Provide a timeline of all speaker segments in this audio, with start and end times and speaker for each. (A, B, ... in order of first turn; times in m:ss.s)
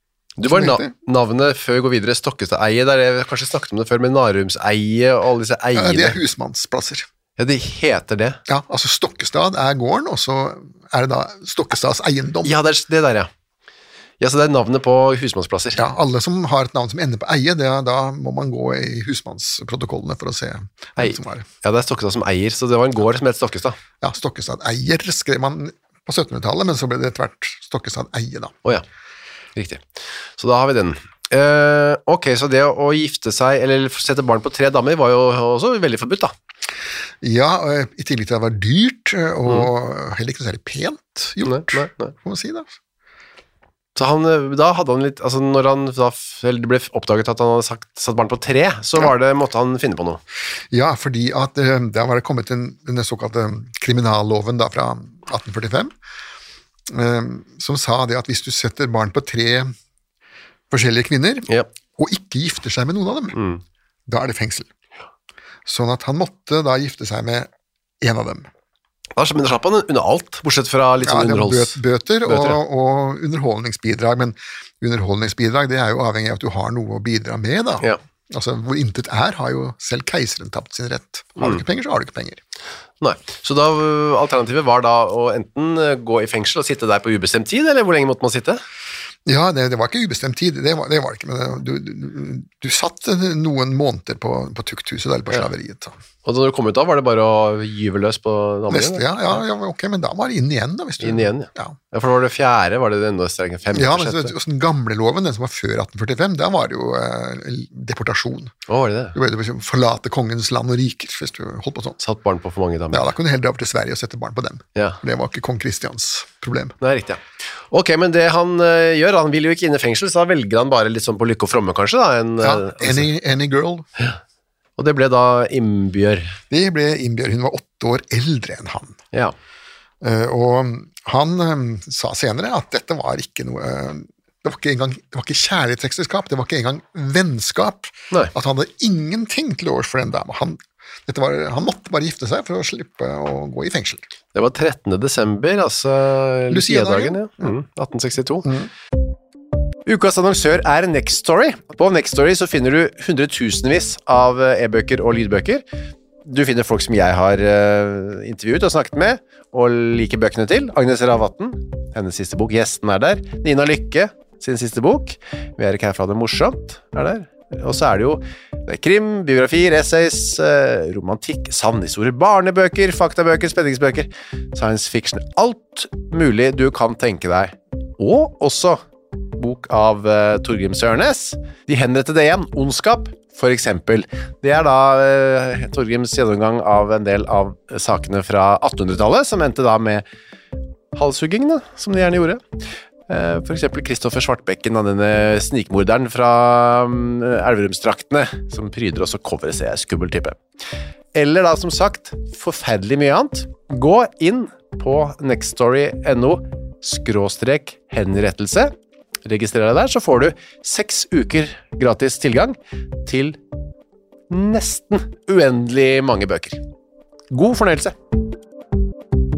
0:00.4-0:06.2 A
0:00.4-0:00.9 B
0:05.7-0:07.1 B
0:07.4-0:08.4 A
0:08.5-0:12.6 B
0:12.4-0:13.3 A
0:14.2-0:15.8 A
0:15.8-0:21.4 B
0:21.0-0:23.8 A
0:24.0-0:28.5 B
0:29.6-0:29.8 A
0:30.4-0:36.3 A
0:37.2-0:42.7 B
0:41.4-0:42.1 A
0:44.0-0:50.2 A
0:50.7-0:55.9 B
0:56.9-0:59.7 B
1:00.7-1:03.4 B
1:03.3-1:03.6 A
1:04.1-1:04.7 B
1:05.6-1:07.5 B
1:08.0-1:08.5 B
1:09.2-1:12.6 A
1:11.0-1:22.4 B
1:23.0-1:28.6 A
1:29.2-1:35.9 B
1:36.2-1:39.4 A
1:38.7-1:41.8 B
1:41.0-1:44.3 A
1:43.7-1:48.5 B
1:48.7-1:49.2 A
1:49.1-1:52.0 B
1:52.0-1:53.1 A
1:52.9-1:56.8 B
1:56.8-1:57.2 A
1:57.7-2:03.1 A
2:02.4-2:03.9 B
2:04.8-2:06.4 A
2:06.5-2:09.0 B
2:10.0-2:24.0 B
2:24.3-2:28.5 A
2:26.5-2:27.5 B
2:28.4-2:28.7 B
2:29.8-2:35.6 A
2:36.2-2:58.8 A
2:59.3-3:10.0 A
3:10.9-3:12.4 A
3:13.1-3:20.4 A
3:21.1-3:28.7 A
3:29.2-3:33.4 A
3:34.3-3:36.6 A
3:37.3-3:37.9 A